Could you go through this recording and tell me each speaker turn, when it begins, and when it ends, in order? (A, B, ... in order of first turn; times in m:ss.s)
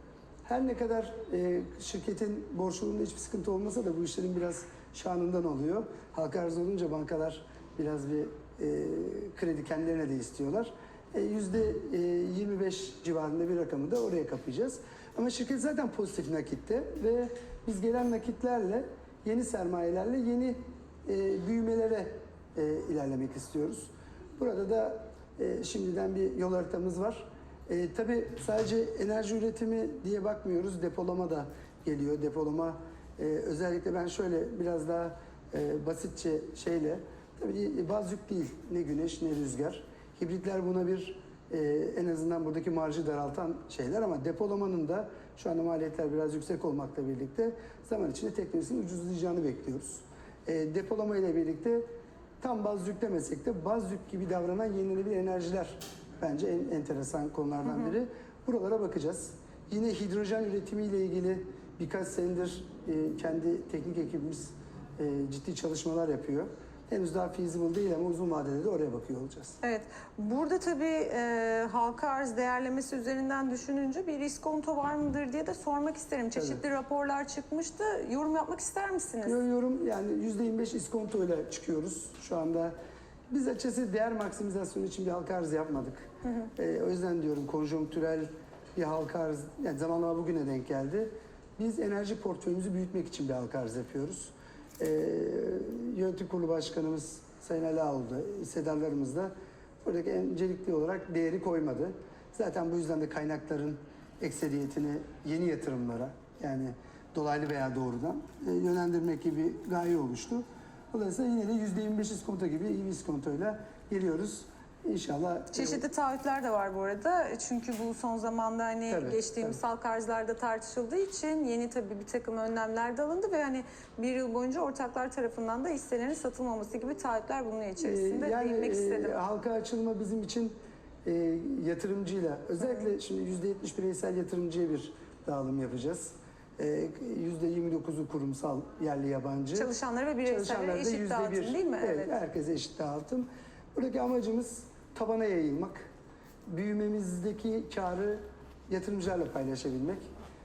0:00.4-0:51.8 A
0:52.4-1:09.6 A
1:09.6-1:19.4 B
1:16.3-1:16.6 A
1:19.2-1:22.7 A
1:23.3-1:55.8 A
1:55.5-2:09.2 B
1:58.9-1:59.6 A
2:07.8-2:19.7 A
2:19.5-2:22.2 B
2:20.2-2:25.8 A
2:26.5-2:30.1 A